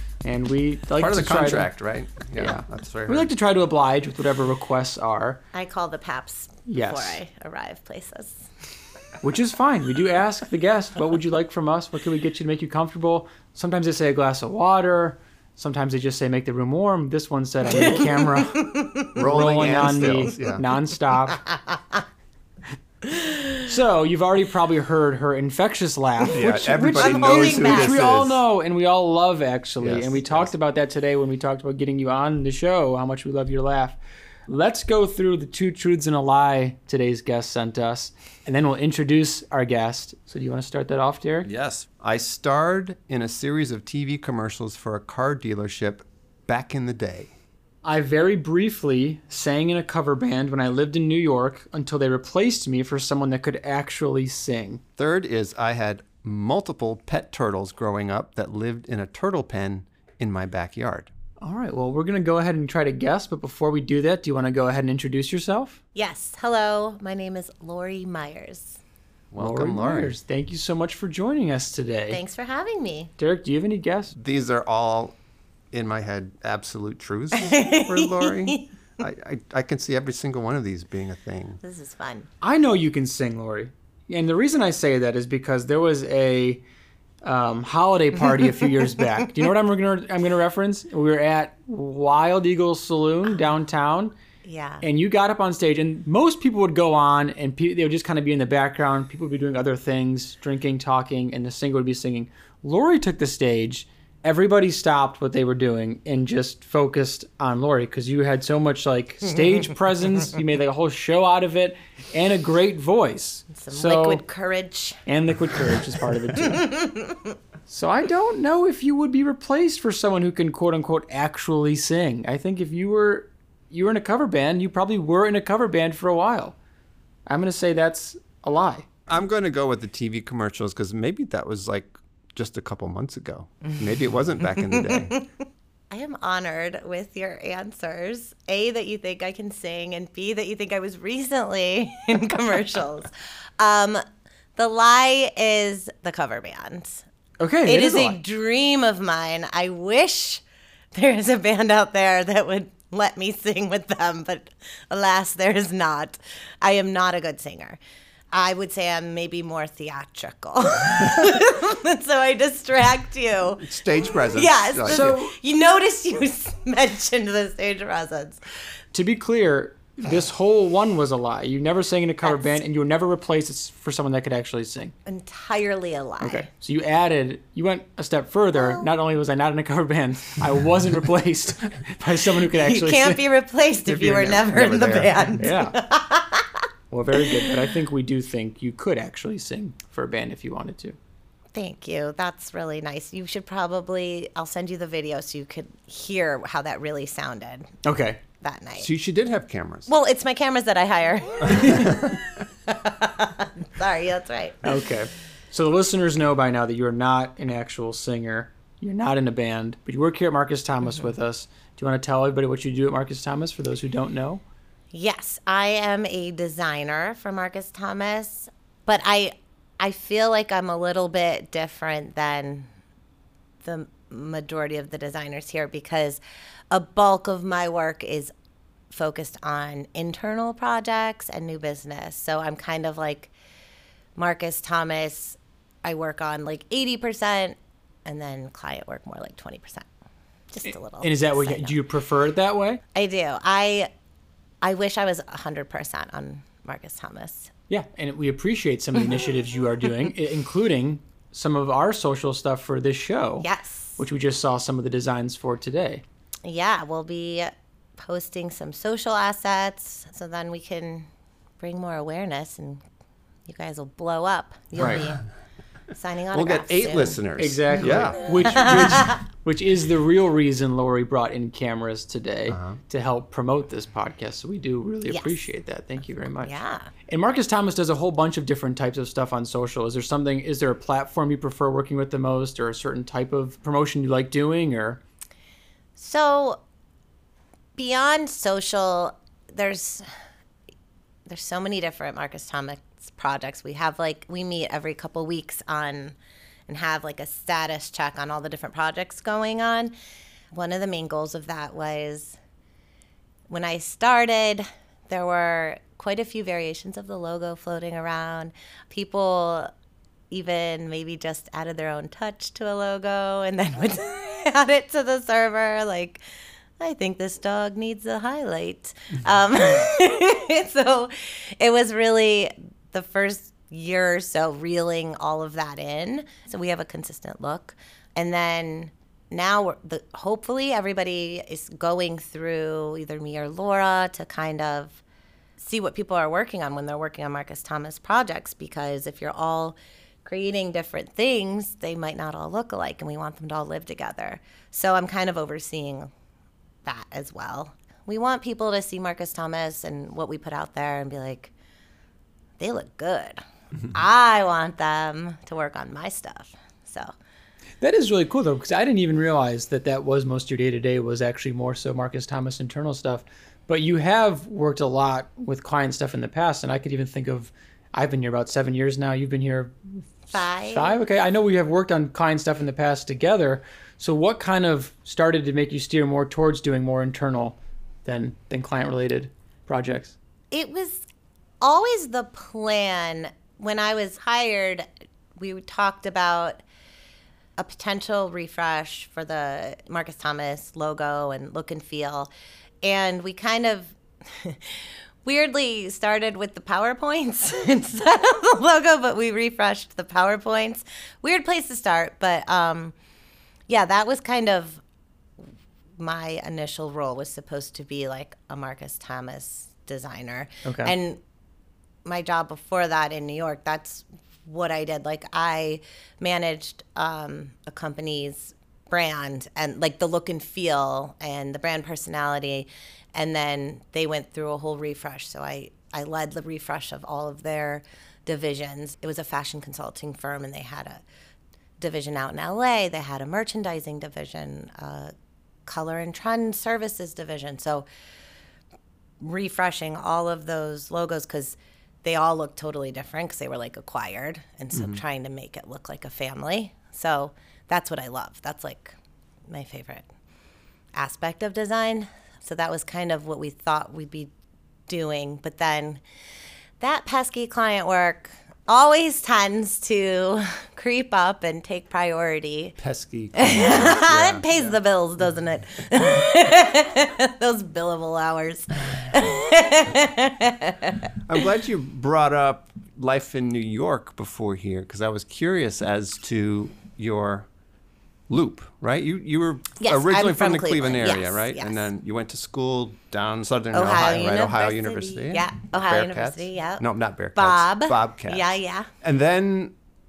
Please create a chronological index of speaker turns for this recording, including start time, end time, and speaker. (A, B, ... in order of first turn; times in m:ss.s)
0:00.2-0:01.7 A
0:01.0-0:03.3 B
0:02.4-0:05.4 A
0:05.5-0:08.5 C
0:06.7-0:07.2 A
0:09.2-0:21.4 A
0:17.7-0:19.2 C
0:19.2-0:20.6 B
0:21.5-0:22.0 C
0:23.1-0:23.6 C
0:23.6-0:41.5 A
0:26.3-0:28.4 B
0:27.0-0:28.0 C
0:29.8-0:30.5 B
0:41.4-0:47.3 B
0:47.8-0:54.8 A
0:55.0-1:01.1 B
1:01.4-1:05.8 A
1:05.9-1:08.8 C
1:09.3-1:10.2 B
1:09.4-1:12.2 A
1:12.1-1:13.1 C
1:13.2-1:14.1 A
1:14.1-1:15.2 B
1:15.7-1:21.6 B
1:17.3-1:18.7 C
1:21.6-1:22.3 C
1:22.4-1:26.6 A
1:27.2-1:34.1 A
1:34.4-1:34.9 C
1:34.8-1:54.2 A
1:53.5-1:55.0 C
1:55.1-1:56.7 A
1:56.4-1:57.3 C
1:57.7-2:06.6 A
2:07.3-2:08.9 A
2:09.1-2:15.1 B
2:14.7-2:15.3 C
2:15.9-2:24.0 C
2:24.6-2:27.0 C
2:27.4-2:28.2 A
2:27.6-2:30.4 C
2:30.9-2:37.8 C
2:38.3-2:43.7 C
2:43.6-2:45.2 B
2:44.3-2:48.4 C
2:44.9-2:45.3 A
2:48.9-2:54.9 A
2:52.2-2:52.6 C
2:55.0-2:56.5 C
2:56.2-3:03.2 A
2:58.6-2:58.9 C
3:02.5-3:06.6 C
3:03.9-3:05.5 B
3:05.4-3:05.8 A
3:06.9-3:11.0 A
3:07.2-3:07.5 C
3:11.6-3:17.7 C
3:17.8-3:18.2 A
3:18.4-3:18.9 C
3:18.8-3:19.9 B
3:19.9-3:24.6 C
3:21.7-3:22.2 B
3:24.6-3:34.4 A
3:34.9-3:42.7 C
3:43.6-3:48.3 C
3:48.9-3:53.3 C
3:54.2-3:59.9 C
4:00.5-4:01.8 C
4:00.7-4:02.8 A
4:02.9-4:03.9 C
4:04.6-4:07.5 C
4:07.7-4:13.5 A
4:13.4-4:14.0 C
4:14.0-4:16.0 A
4:16.4-4:21.1 C
4:21.6-4:22.8 C
4:23.5-4:25.2 C
4:24.8-4:25.0 A
4:25.9-4:27.2 C
4:26.3-4:29.0 B
4:27.4-4:45.0 A
4:32.5-4:32.8 B
4:35.1-4:35.4 C
4:36.4-4:36.9 C
4:46.0-4:46.6 C
4:47.8-4:50.1 C
4:51.3-4:56.2 C
4:56.7-4:59.9 C
5:00.5-5:02.4 C
5:03.5-5:09.7 C
5:10.3-5:16.2 C
5:16.8-5:35.0 C
5:35.6-5:46.1 C
5:46.8-5:51.5 C
5:52.6-5:53.4 C
5:53.9-5:57.1 C
5:57.8-6:20.2 A
6:10.3-6:10.9 C
6:20.5-6:21.0 C
6:21.6-6:26.6 C
6:27.6-6:32.3 C
6:32.8-6:42.9 C
6:43.7-6:44.8 C
6:46.0-6:51.2 C
6:50.6-6:50.9 A
6:52.1-7:11.0 C
7:11.8-7:15.1 C
7:15.7-7:17.9 C
7:19.2-7:29.0 C
7:24.7-7:25.0 B
7:29.5-7:30.1 C
7:30.9-7:34.3 C
7:34.9-7:36.0 C
7:36.8-7:42.8 C
7:42.8-7:44.8 B
7:43.3-7:51.0 C
7:51.2-7:57.5 B
7:58.3-8:09.8 B
7:59.8-8:01.8 C
8:03.7-8:06.8 C
8:07.3-8:08.9 C